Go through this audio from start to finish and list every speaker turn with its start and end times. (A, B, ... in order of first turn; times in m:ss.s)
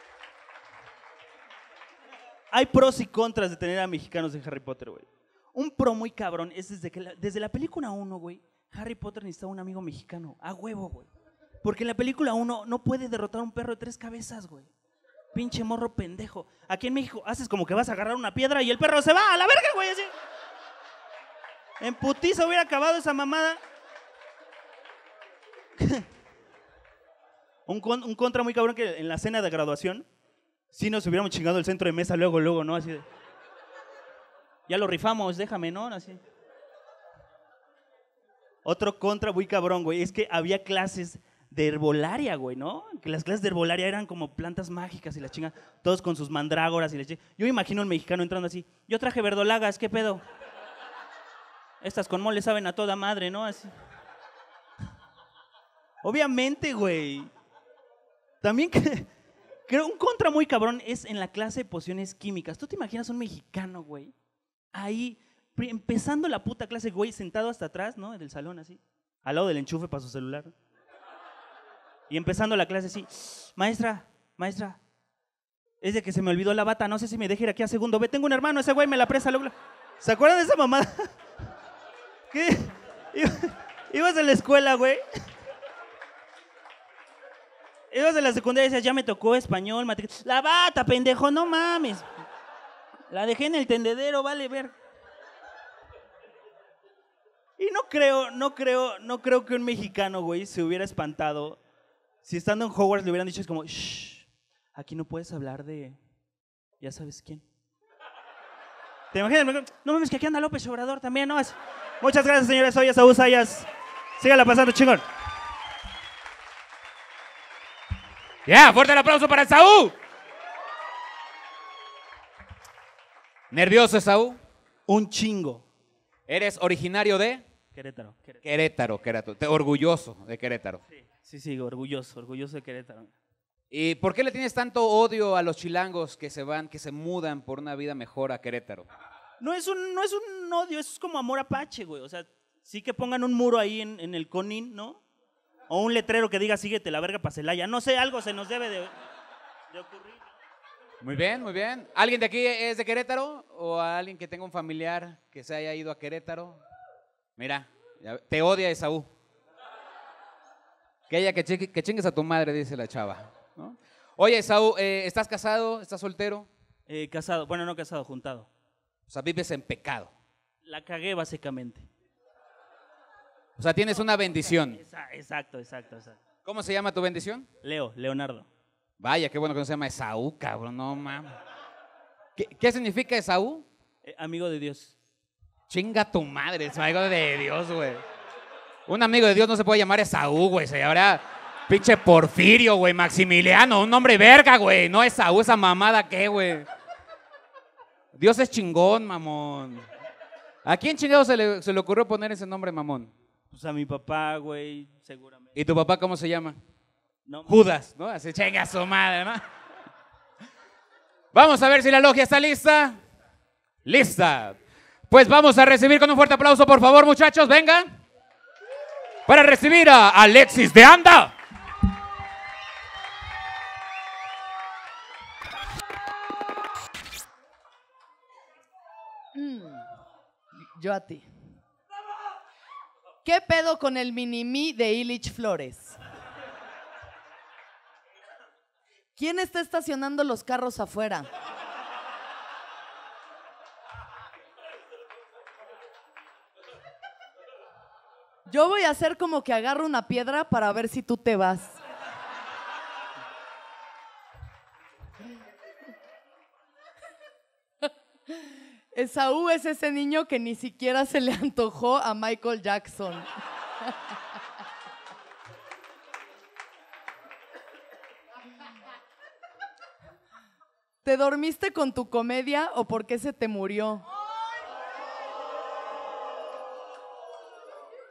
0:02.5-0:11.1 A
0:11.6-0:14.7 A
0:15.3-0:20.1 A
0:21.8-0:23.6 A
0:27.7-0:30.1 A
0:30.7-0:33.0 A
0:34.7-0:36.2 A
0:38.6-0:50.2 A
0:51.8-0:53.7 A
0:56.0-0:57.3 A
0:58.4-0:59.1 A
0:59.7-1:04.1 A
1:04.7-1:10.5 A
1:12.1-1:14.8 A
1:15.8-1:21.1 A
1:22.3-1:25.0 A
1:27.9-1:32.1 A
1:33.1-1:34.7 A
1:37.6-1:41.6 A
1:42.2-1:46.0 A
1:46.8-1:47.4 A
1:49.1-1:53.7 A
1:54.2-1:55.0 A
1:58.5-2:00.0 B
2:03.5-2:04.4 B
2:04.9-2:05.6 A
2:06.3-2:07.4 B
2:07.8-2:08.4 A
2:08.4-2:10.8 B
2:11.0-2:13.1 A
2:13.7-2:18.9 B
2:19.4-2:25.0 A
2:25.7-2:28.9 A
2:29.7-2:30.2 A
2:31.0-2:36.6 B
2:37.4-2:39.1 B
2:41.1-2:46.5 B
2:46.9-2:48.5 A
2:49.1-2:50.1 B
2:50.7-2:51.9 A
2:53.6-2:54.8 B
2:54.8-2:56.2 A
2:56.4-2:57.5 B
2:57.6-2:58.5 A
2:59.0-3:01.4 B
3:02.4-3:03.7 B
3:04.0-3:04.9 A
3:05.7-3:08.0 B
3:08.9-3:16.7 B
3:18.1-3:19.9 B
3:20.6-3:23.1 B
3:23.5-3:25.6 A
3:25.6-3:26.6 B
3:27.3-3:27.5 A
3:27.5-3:29.4 B
3:31.3-3:33.0 B
3:33.8-3:34.6 B
3:35.1-3:38.0 B
3:39.3-3:41.4 B
3:49.3-3:49.9 C
3:50.7-3:51.3 C
3:53.2-3:56.0 C
3:59.2-4:01.3 C
4:08.5-4:11.8 C
4:18.9-4:23.3 C
4:31.0-4:34.0 C